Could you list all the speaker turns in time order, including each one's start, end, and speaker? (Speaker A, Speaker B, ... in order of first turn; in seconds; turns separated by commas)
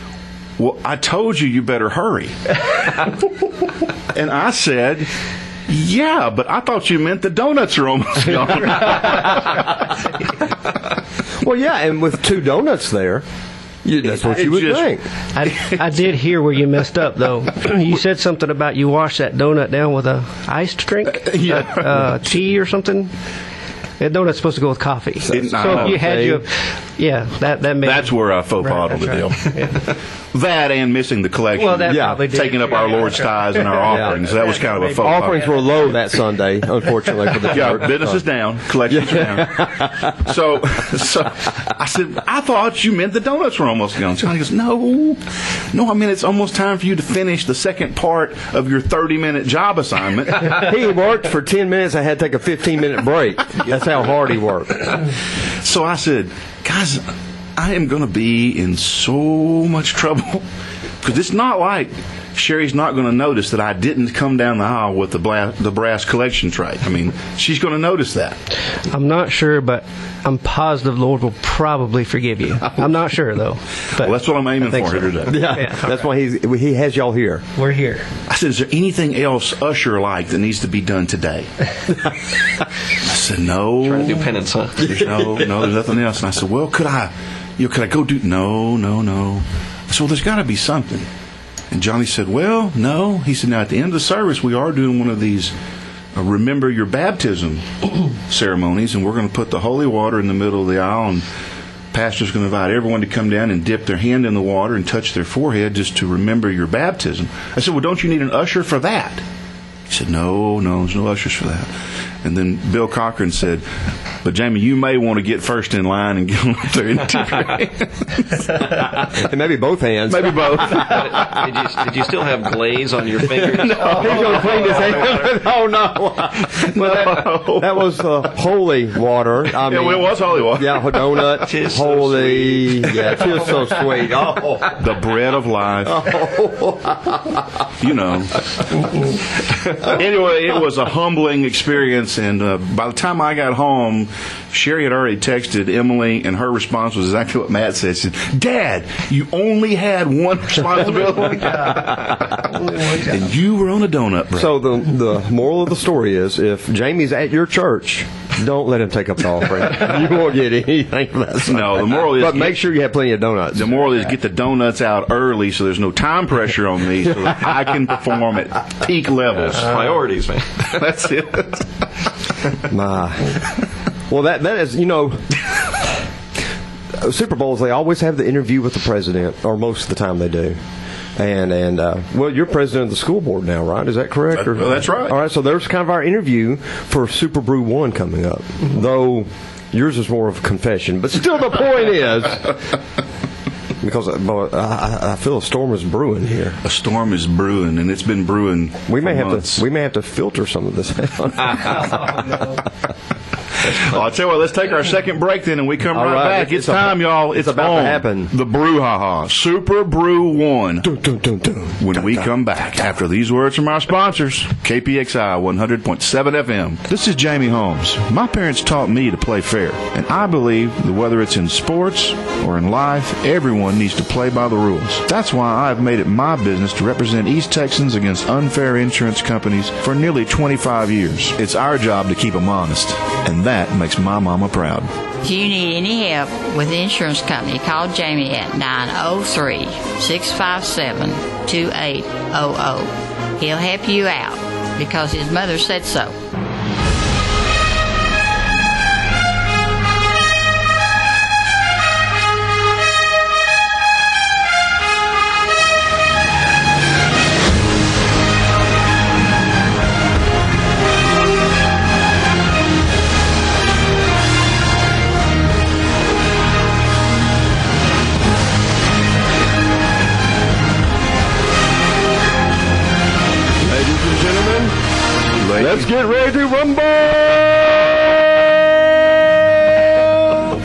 Speaker A: 0.6-3.2, Speaker A: 4.1-5.1, Speaker A: 5.7-9.9, Speaker B: 11.4-13.2, Speaker B: 13.8-15.0, Speaker A: 14.0-14.9, Speaker C: 15.3-23.1, Speaker A: 15.5-15.8, Speaker A: 21.1-22.0, Speaker C: 24.0-29.8, Speaker B: 25.2-26.4, Speaker A: 25.3-26.0, Speaker A: 27.8-29.8, Speaker A: 30.3-35.5, Speaker C: 31.5-35.6, Speaker B: 31.9-32.2, Speaker B: 33.9-34.4, Speaker B: 34.9-38.2, Speaker A: 37.5-50.7, Speaker B: 38.8-40.3, Speaker B: 50.4-55.0, Speaker A: 55.6-60.5, Speaker A: 61.0-68.4, Speaker C: 68.9-74.1, Speaker A: 74.0-75.5, Speaker C: 74.7-76.0, Speaker B: 75.2-77.4, Speaker C: 77.5-78.0, Speaker A: 78.3-81.5, Speaker A: 82.9-91.1, Speaker D: 83.8-84.9, Speaker B: 84.8-85.3, Speaker A: 91.7-95.5, Speaker A: 96.1-101.2, Speaker A: 101.9-109.2, Speaker A: 109.9-111.7, Speaker A: 112.2-113.6, Speaker A: 114.2-119.2, Speaker B: 119.1-121.4, Speaker A: 120.1-121.4, Speaker D: 120.6-125.3, Speaker B: 123.3-134.8, Speaker A: 123.5-125.1, Speaker A: 126.5-127.8, Speaker A: 129.5-131.2, Speaker D: 131.3-133.5, Speaker A: 134.8-136.1, Speaker B: 135.8-137.6, Speaker A: 137.8-138.9, Speaker A: 139.8-154.5, Speaker C: 151.3-153.1, Speaker B: 151.6-152.3, Speaker B: 154.3-163.8, Speaker A: 161.4-162.6, Speaker A: 163.5-169.8, Speaker B: 167.1-167.5, Speaker D: 169.3-170.8, Speaker A: 170.6-171.7, Speaker B: 172.7-173.4, Speaker B: 174.1-176.0, Speaker B: 176.9-180.6, Speaker B: 181.2-192.6, Speaker A: 184.3-185.1, Speaker B: 193.8-196.6, Speaker A: 196.6-199.6, Speaker B: 198.9-202.6, Speaker A: 203.6-210.9, Speaker B: 205.9-208.3, Speaker B: 210.8-212.3, Speaker A: 211.8-234.9, Speaker E: 235.2-246.2, Speaker B: 273.6-274.7, Speaker A: 275.4-275.9, Speaker B: 275.4-278.8, Speaker B: 279.9-280.4